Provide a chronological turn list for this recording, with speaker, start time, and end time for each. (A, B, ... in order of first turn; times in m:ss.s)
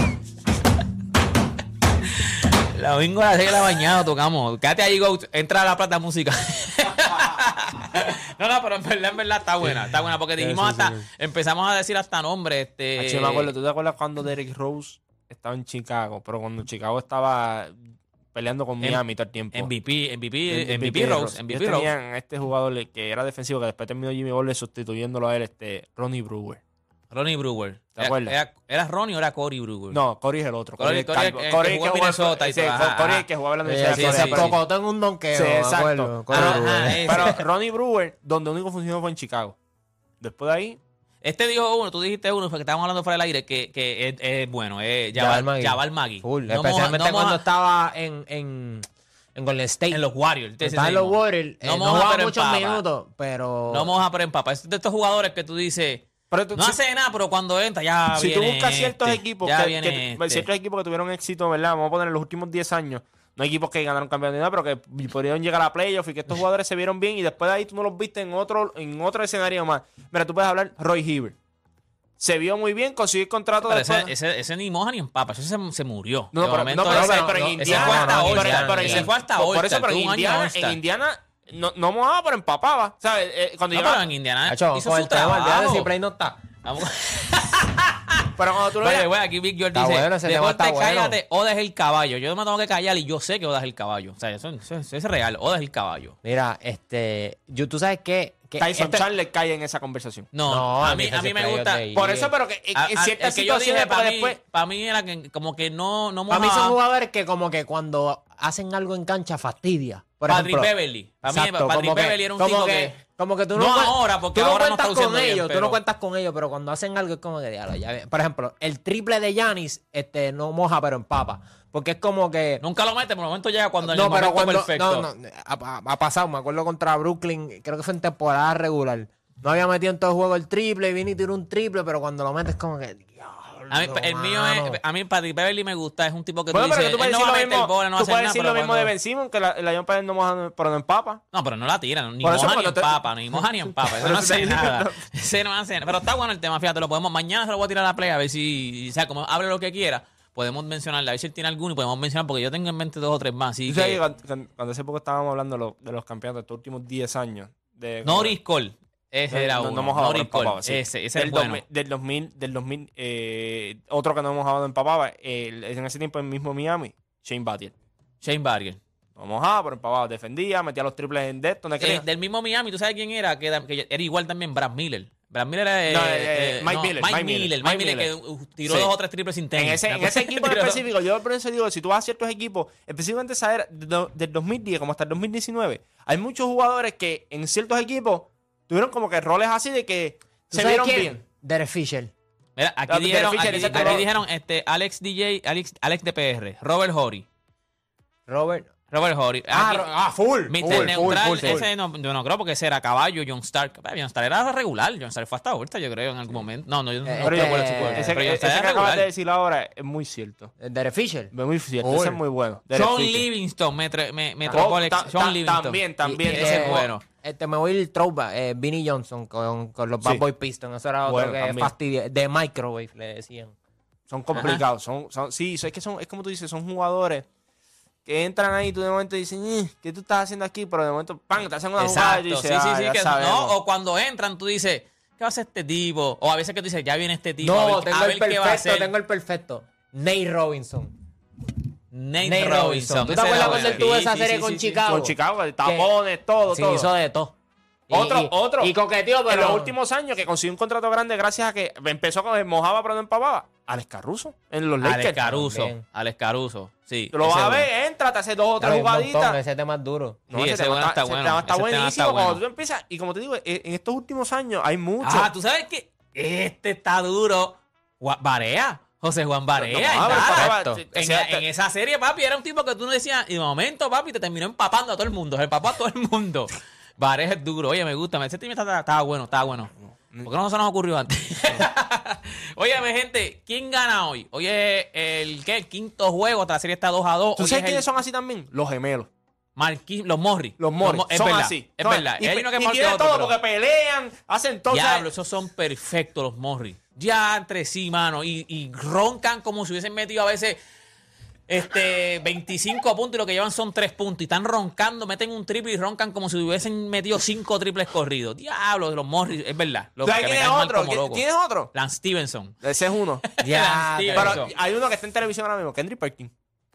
0:02.0-0:13.5 A
0:10.4-0:11.0 B
0:13.0-0:17.8 C
0:18.3-0:19.7 C
0:18.8-0:21.9 A
0:20.5-0:26.6 C
0:27.1-0:30.0 A
0:28.0-0:28.4 C
0:29.9-0:34.6 C
0:30.8-0:33.3 A
0:33.6-0:37.4 B
0:33.8-0:34.6 A
0:35.3-0:39.6 C
0:36.3-0:37.4 A
0:40.2-0:40.8 C
0:41.2-0:47.4 A
0:45.2-0:50.0 B
0:49.9-0:52.8 A
0:50.6-0:53.9 B
0:53.7-1:00.5 A
0:56.3-0:56.8 C
0:58.1-1:11.4 C
1:12.2-1:14.1 C
1:13.6-1:20.8 A
1:16.3-1:24.1 C
1:16.8-1:19.1 B
1:23.7-1:25.9 A
1:24.5-1:26.4 B
1:26.6-1:36.2 A
1:28.4-1:29.1 C
1:29.7-1:31.2 B
1:36.2-1:39.1 B
1:38.6-1:40.3 C
1:40.3-1:41.8 A
1:40.5-1:42.3 B
1:41.9-1:44.4 C
1:42.8-1:46.8 A
1:46.3-1:50.7 B
1:50.3-1:53.0 A
1:51.3-2:02.6 B
1:53.6-1:55.8 A
2:02.6-2:05.1 A
2:03.8-2:14.8 B
2:13.7-2:18.9 A
2:16.5-2:21.2 C
2:21.3-2:34.0 A
2:22.2-2:25.0 C
2:33.7-2:38.4 C
2:38.0-2:41.6 A
2:39.3-2:47.7 C
2:48.2-2:48.8 A
2:49.2-2:52.0 C
2:51.8-3:00.8 A
2:55.9-2:58.1 C
2:59.6-3:11.2 C
3:10.5-3:12.1 B
3:12.6-3:17.3 A
3:12.9-3:14.1 C
3:13.5-3:14.0 B
3:18.3-3:18.7 B
3:18.9-3:19.9 A
3:19.5-3:21.7 B
3:20.5-3:29.1 A
3:20.6-3:21.6 C
3:27.0-3:28.2 B
3:27.2-3:30.5 C
3:30.6-3:32.2 B
3:31.3-3:33.3 C
3:32.7-3:37.0 A
3:34.5-3:36.9 C
3:36.0-3:43.6 B
3:41.1-3:41.7 C
3:44.1-3:47.3 C
3:44.4-3:44.6 A
3:48.1-3:53.6 C
3:51.8-3:58.9 A
3:57.4-4:00.9 B
4:01.9-4:04.6 A
4:02.2-4:05.9 B
4:03.3-4:06.9 C
4:06.5-4:07.4 B
4:07.9-4:09.8 B
4:07.9-4:08.7 C
4:09.3-4:15.3 C
4:14.8-4:17.7 A
4:15.2-4:15.8 B
4:17.1-4:19.4 C
4:18.6-4:20.2 B
4:20.3-4:25.3 C
4:20.3-4:22.4 A
4:25.0-4:39.7 A
4:29.6-4:31.4 C
4:30.0-4:30.8 B
4:40.2-4:47.8 A
4:47.4-4:49.1 C
4:49.6-4:53.3 A
4:50.6-4:55.1 C
4:54.7-5:00.6 A
5:01.5-5:12.6 A
5:10.0-5:11.7 C
5:12.6-5:13.2 C
5:13.2-5:14.5 A
5:13.4-5:14.5 B
5:14.1-5:16.3 C